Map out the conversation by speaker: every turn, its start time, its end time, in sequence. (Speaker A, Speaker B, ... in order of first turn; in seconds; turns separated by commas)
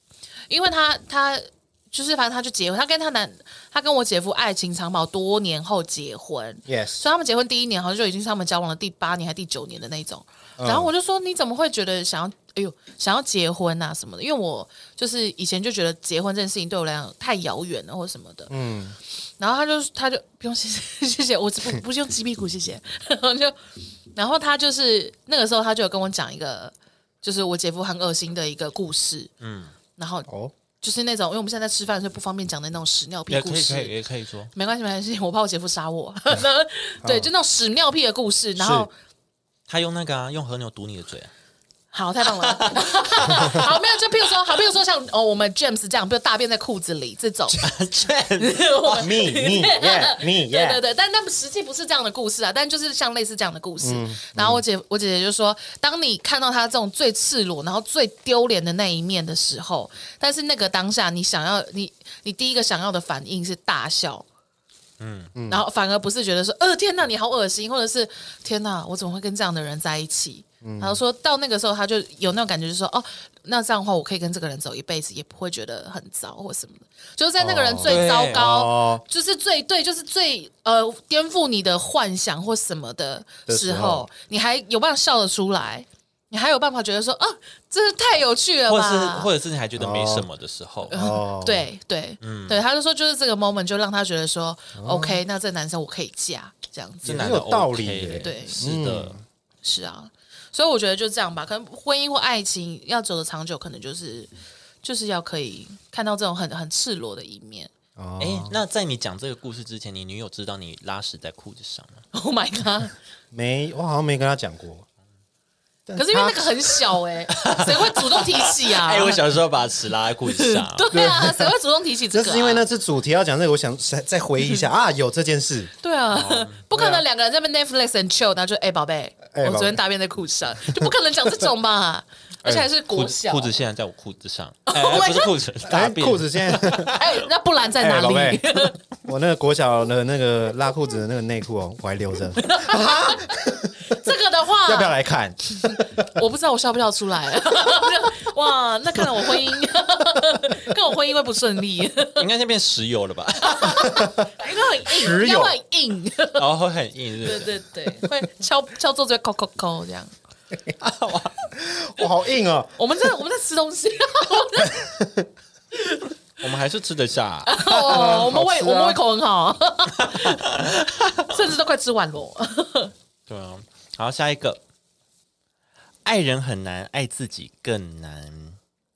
Speaker A: 0.5-18.5, Speaker B: 6.7-7.0, Speaker B: 10.6-10.9, Speaker B: 18.5-19.0, Speaker A: 19.4-23.6, Speaker A: 24.1-29.3, Speaker C: 29.4-29.8, Speaker A: 29.9-30.3, Speaker B: 30.3-30.5, Speaker A: 30.8-33.9, Speaker C: 33.3-34.5, Speaker A: 34.5-38.9, Speaker B: 37.0-37.3, Speaker B: 38.6-38.9, Speaker C: 39.7-41.3, Speaker A: 41.9-47.6, Speaker C: 42.4-43.7, Speaker B: 43.4-43.6, Speaker C: 47.5-49.0, Speaker A: 48.4-64.2, Speaker B: 48.9-50.8, Speaker B: 53.8-54.6, Speaker C: 65.0-65.3, Speaker B: 65.3-65.6, Speaker A: 65.5-89.3, Speaker B: 70.6-71.0, Speaker B: 77.4-79.0, Speaker C: 77.8-78.4, Speaker B: 83.5-84.1, Speaker C: 88.7-90.9, Speaker B: 89.8-90.3, Speaker A: 90.9-97.3, Speaker B: 90.9-91.7, Speaker C: 92.2-92.6, Speaker B: 94.8-95.2, Speaker C: 97.0-99.2, Speaker B: 97.0-99.2, Speaker A: 98.2-98.7, Speaker A: 99.6-104.3, Speaker A: 104.8-107.7, Speaker B: 108.0-108.6, Speaker C: 108.2-112.0, Speaker A: 112.1-112.9, Speaker B: 113.3-114.8, Speaker B: 115.9-117.0, Speaker A: 115.9-119.2, Speaker C: 117.3-121.0, Speaker A: 120.3-122.7, Speaker B: 120.9-121.5, Speaker B: 122.1-125.7, Speaker A: 125.8-133.5, Speaker C: 126.1-126.6, Speaker B: 126.7-127.0, Speaker B: 129.3-129.8, Speaker C: 132.4-137.2, Speaker A: 134.7-135.3, Speaker B: 135.7-136.9, Speaker A: 136.9-138.8, Speaker B: 137.8-138.4, Speaker B: 139.0-144.1, Speaker A: 142.4-144.9, Speaker B: 144.6-146.2, Speaker A: 145.6-152.3, Speaker B: 149.0-149.3, Speaker C: 152.1-154.0, Speaker A: 153.4-156.4, Speaker B: 153.8-154.3, Speaker B: 154.8-155.6, Speaker C: 156.4-157.5, Speaker A: 157.2-160.1, Speaker C: 160.8-161.4, Speaker B: 161.5-163.1, Speaker A: 162.8-164.9, Speaker B: 164.6-165.2, Speaker A: 165.7-166.1, Speaker C: 166.4-168.1, Speaker A: 167.5-172.9, Speaker B: 167.7-169.0, Speaker C: 170.0-171.3, Speaker C: 173.3-174.6, Speaker C: 176.0-178.6